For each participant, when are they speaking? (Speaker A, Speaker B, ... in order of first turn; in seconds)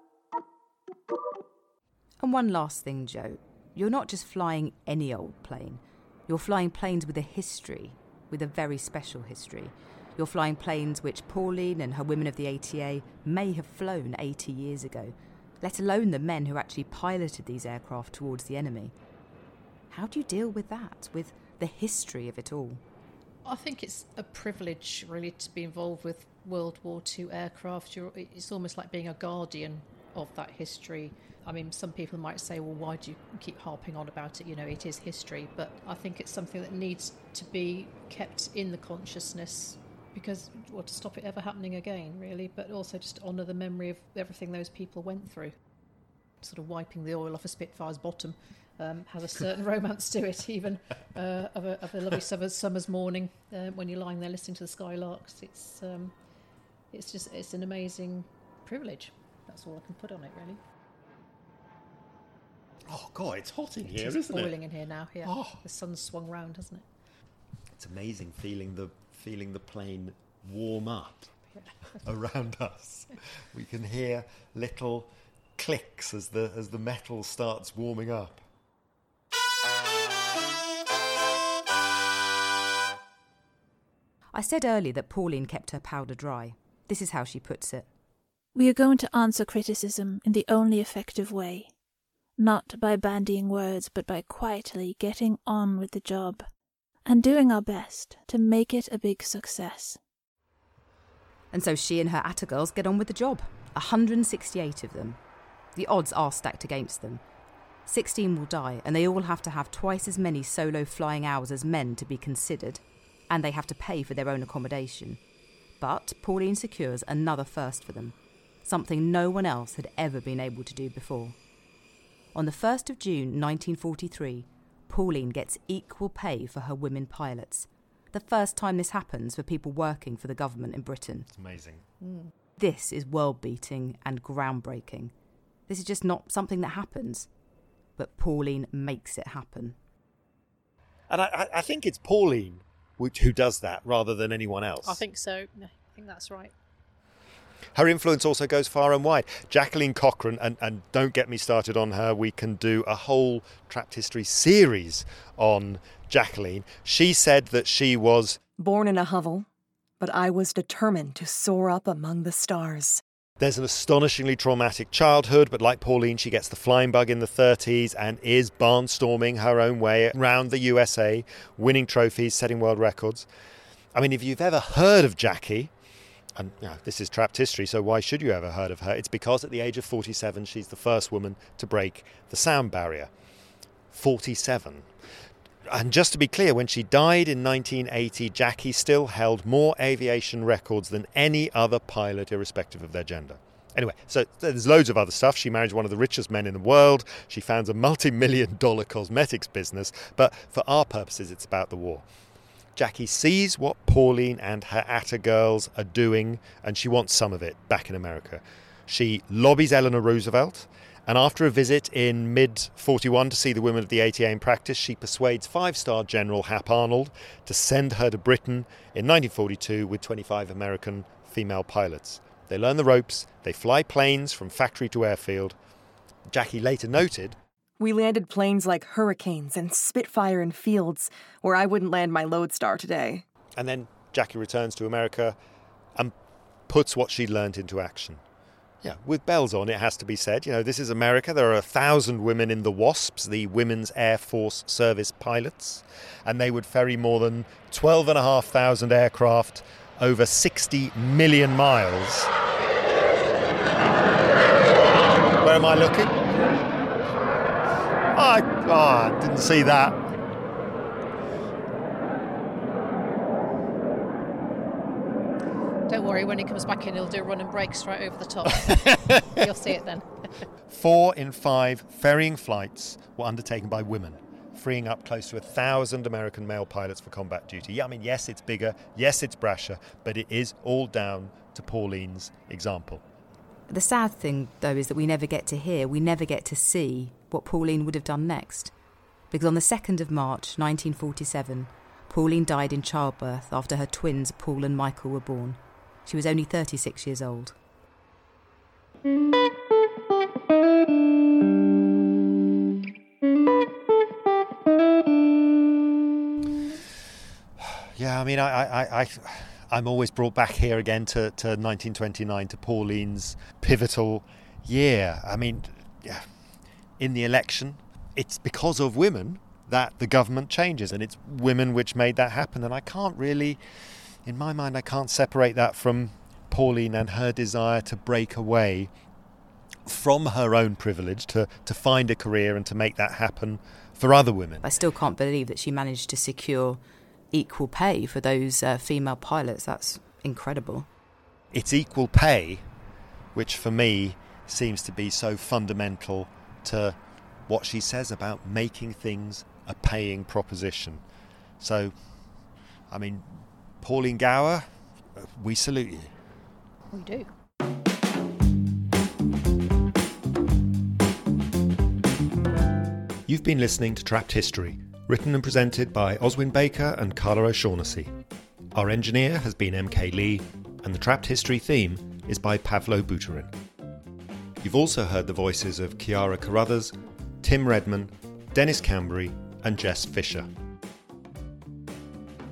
Speaker A: 2.2-18.9, 19.9-22.8, 84.3-87.9, 101.5-105.2, 105.7-107.2, 107.9-115.2, 115.8-121.3, 122.3-131.3, 132.6-135.1, 135.7-137.3, 138.0-139.8, 283.7-288.7, 289.3-297.6, 334.6-336.8, 337.3-340.9
Speaker B: 23.4-45.5, 46.4-56.1, 56.9-60.6, 63.8-66.8, 132.0-132.3, 144.8-146.5, 265.9-270.3, 356.9-357.3
Speaker C: 62.9-64.5, 65.2-65.6, 67.7-71.3, 72.0-78.4, 131.3-131.8, 141.1-145.0, 147.7-158.4, 163.4-173.3, 173.9-175.7, 176.3-183.1, 183.9-184.9, 185.7-202.1, 202.8-225.6, 226.3-227.4, 233.6-235.3, 236.7-238.2, 238.8-252.3, 255.4-256.3, 258.1-260.0, 268.5-269.4, 270.7-283.0, 307.6-316.3, 317.0-323.6, 324.2-328.9, 329.9-334.8, 341.5-342.6, 343.3-346.9, 347.5-351.0, 351.6-351.9, 352.9-356.1, 363.3-368.1, 368.7-373.5, 374.6-380.5
Speaker D: 88.5-91.7, 92.4-96.4, 97.0-100.0
Speaker E: 158.6-159.5, 160.0-163.0, 227.8-233.2